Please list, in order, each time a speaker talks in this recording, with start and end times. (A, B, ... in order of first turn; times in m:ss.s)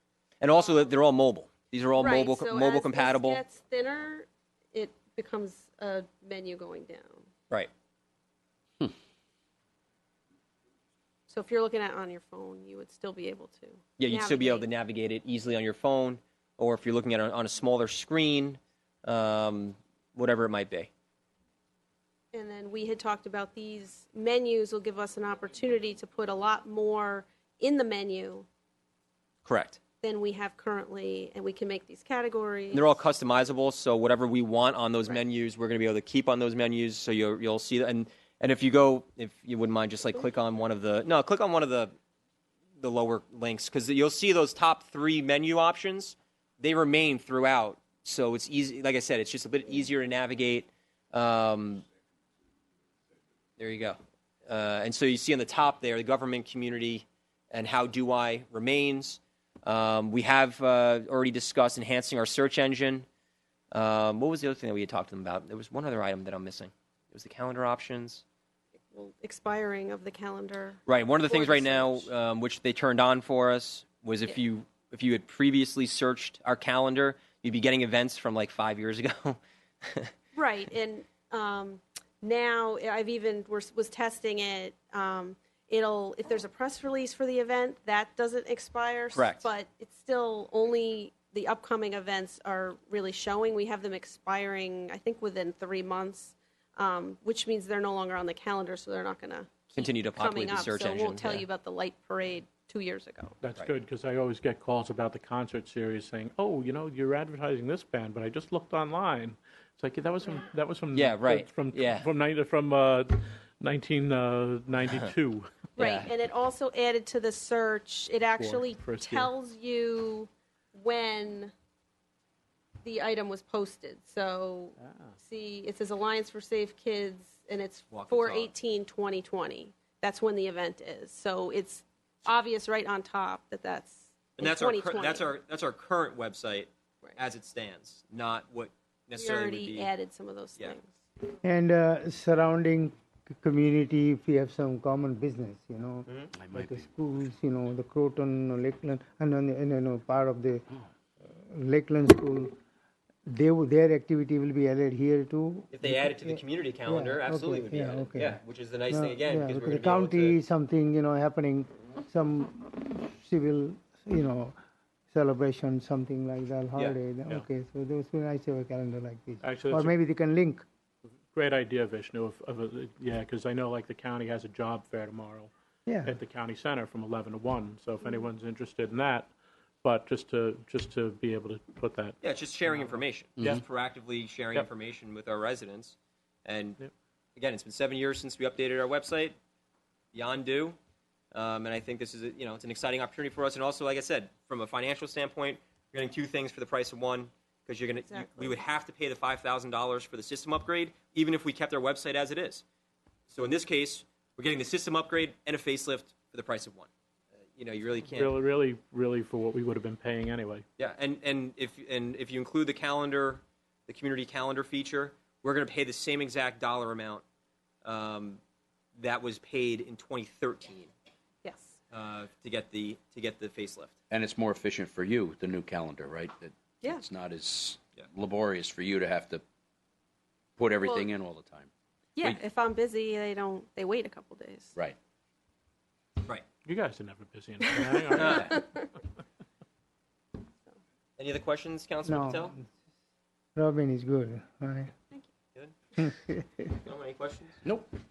0:00.4-0:03.4 A
0:02.0-0:07.3 B
0:11.3-0:14.7 B
0:14.0-0:20.9 A
0:22.3-0:28.5 B
0:29.4-0:29.8 A
0:30.0-0:33.0 B
0:32.7-0:41.9 A
0:42.8-0:51.8 A
0:53.6-1:03.0 A
1:03.7-1:08.2 A
1:08.9-1:12.1 B
1:10.8-1:20.1 A
1:20.3-1:43.3 B
1:29.1-1:29.5 A
1:39.8-1:41.4 A
1:43.4-1:55.7 C
1:50.9-1:52.1 A
1:55.8-1:56.1 A
1:55.8-2:01.5 B
1:58.4-1:59.3 C
2:02.8-2:15.3 B
2:04.8-2:05.1 C
2:07.9-2:08.5 A
2:14.4-2:19.9 A
2:19.1-2:21.0 B
2:21.4-2:30.6 D
2:26.1-2:26.3 A
2:26.4-2:26.8 E
2:31.3-2:32.6 D
2:33.3-2:44.5 D
2:35.7-2:40.4 A
2:45.1-2:50.6 D
2:49.4-2:49.9 C
2:51.3-2:55.5 C
2:55.9-2:56.2 D
2:56.0-3:03.6 C
3:02.2-3:06.8 A
3:07.4-3:09.3 A
3:10.1-3:10.8 A
3:11.3-3:22.6 A
3:18.1-3:18.6 B
3:23.3-3:26.9 A
3:27.6-3:28.3 A
3:28.0-3:30.6 C
3:30.8-3:37.2 A
3:37.8-3:38.4 A
3:39.0-3:40.9 A
3:41.4-3:41.8 B
3:41.9-3:44.0 A
3:44.1-3:49.4 E
3:50.6-3:52.4 E
3:50.8-3:51.1 B
3:52.2-3:54.7 B
3:56.6-3:58.9 C
3:57.8-3:58.8 B
3:58.1-3:58.5 A
4:01.2-4:02.5 A
4:02.0-4:02.7 D
4:03.6-4:04.9 D
4:06.0-4:06.7 D
4:06.8-4:07.6 A
4:07.6-4:07.9 C